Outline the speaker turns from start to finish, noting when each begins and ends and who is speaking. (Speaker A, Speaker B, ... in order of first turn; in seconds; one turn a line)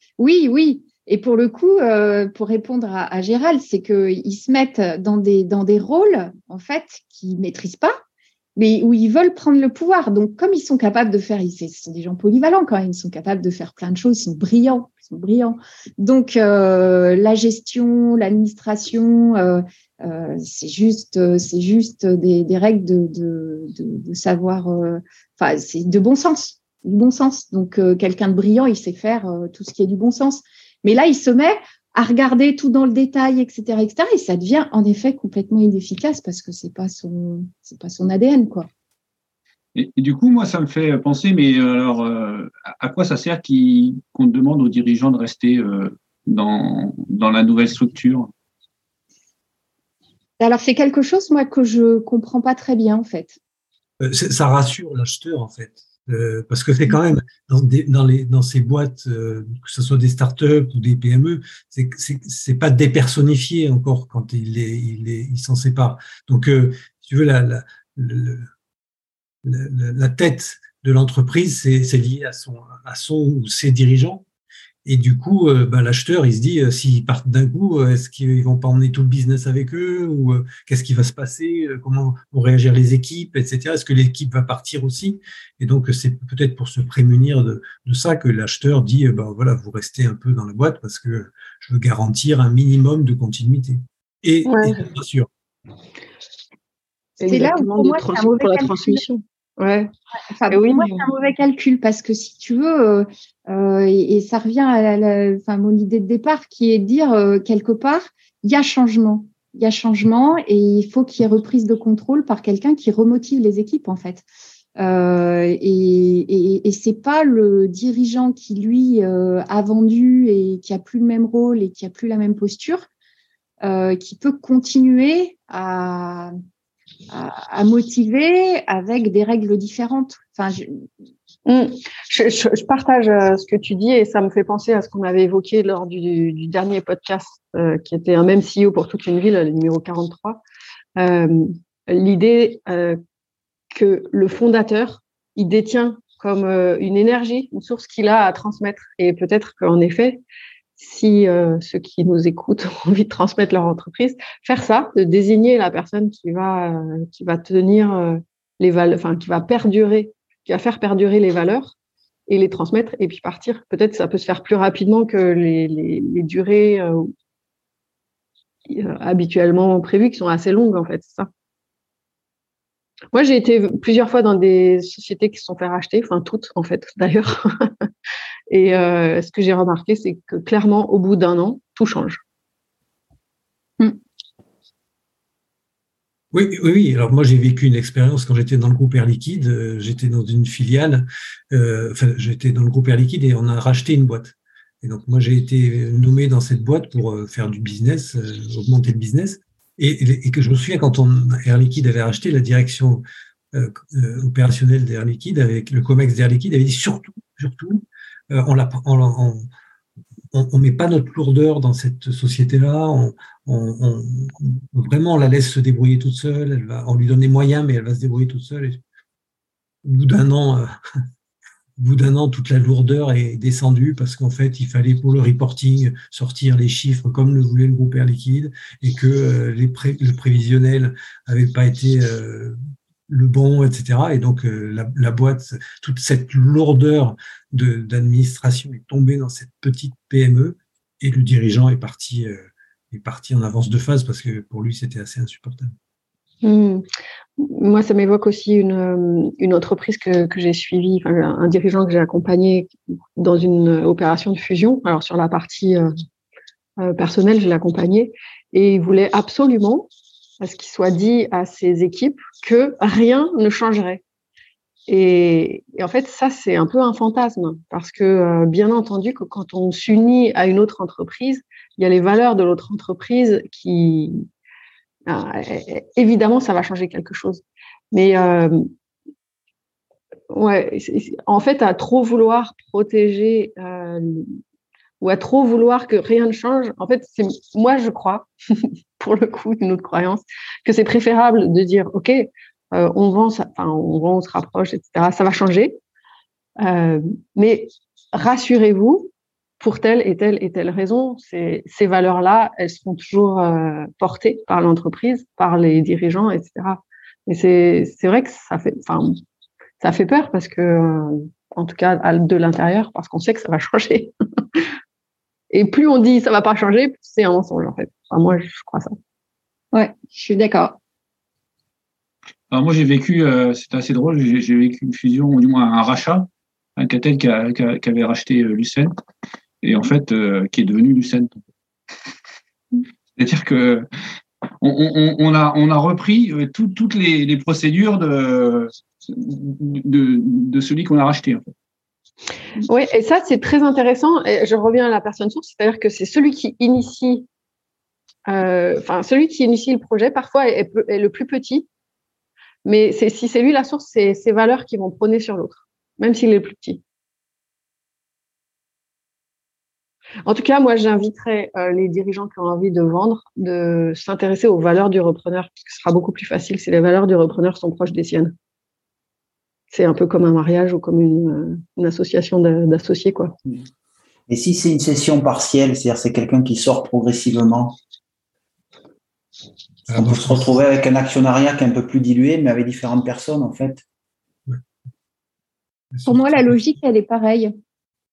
Speaker A: 0.2-8.0
Speaker A: 8.6-38.7
Speaker B: 39.7-48.3
Speaker A: 50.4-53.4
Speaker C: 54.0-68.5
Speaker C: 69.4-74.2
Speaker C: 74.8-95.3
Speaker D: 94.5-94.8
Speaker D: 97.2-99.9
Speaker A: 97.2-99.0
Speaker A: 100.3-114.2
Speaker D: 100.5-101.1
Speaker A: 114.8-122.9
Speaker A: 123.6-126.3
Speaker A: 127.1-130.9
Speaker D: 131.4-140.4
Speaker D: 141.0-143.0
Speaker D: 143.7-150.2
Speaker D: 150.8-161.7
Speaker D: 162.3-167.1
Speaker D: 168.7-171.3
Speaker D: 173.1-177.9
Speaker D: 178.5-182.2
Speaker C: 186.3-209.5
Speaker C: 210.3-218.8
Speaker C: 219.8-220.7
Speaker C: 221.8-245.7
Speaker D: 246.4-246.8
Speaker D: 247.4-255.9
Speaker D: 256.8-259.9
Speaker D: 260.4-264.0
Speaker D: 264.9-274.2
Speaker D: 275.1-278.7
Speaker D: 280.3-284.4
Speaker D: 285.0-295.8
Speaker D: 296.6-309.2
Speaker D: 309.8-314.6
Speaker D: 315.5-318.9
Speaker A: 319.7-320.8
Speaker B: 322.5-328.9
Speaker B: 329.6-331.4
Speaker B: 333.2-333.8
Speaker B: 334.6-341.5
Speaker D: 342.6-347.3
Speaker D: 348.3-351.7
Speaker D: 352.6-356.8
Speaker D: 360.2-368.3
Speaker D: 369.7-373.4
Speaker E: 374.3-377.8
Speaker C: 379.9-380.5
Speaker E: 379.9-383.8
Speaker C: 385.9-386.3
Speaker A: 386.0-387.5